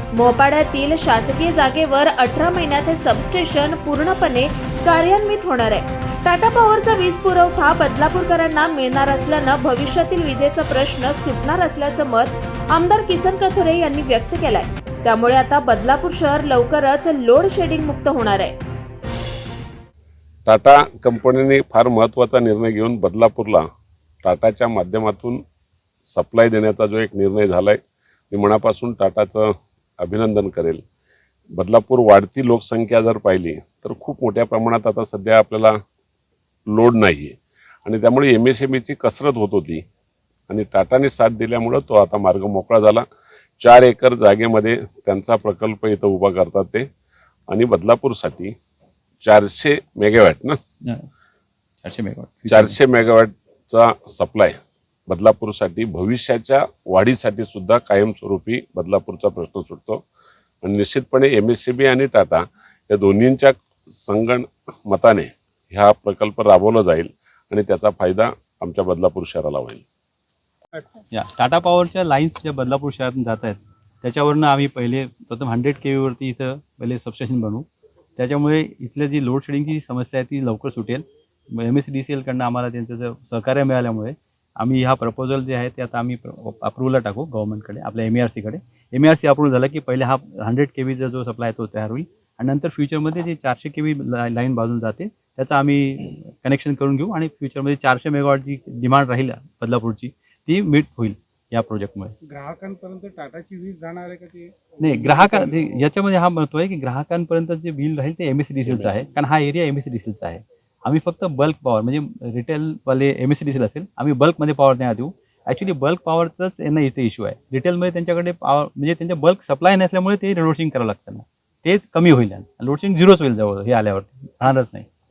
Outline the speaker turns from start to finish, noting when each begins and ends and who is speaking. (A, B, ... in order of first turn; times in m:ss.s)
0:00.1-0:18.6 A
0:20.4-0:23.6 B
0:24.2-0:25.4 B
0:26.0-0:27.8 B
0:28.3-0:30.8 B
0:31.5-0:35.8 B
0:36.7-0:39.8 B
0:40.5-0:43.0 B
0:43.6-0:46.9 B
0:47.5-0:48.5 B
0:49.2-0:50.6 B
0:50.8-0:51.1 C
0:51.8-0:52.8 C
0:52.5-0:54.6 B
0:55.1-1:00.0 B
1:00.6-1:09.8 B
1:11.1-1:42.1 C
1:42.3-1:45.6 D
1:44.8-2:04.9 C
1:48.6-1:49.0 B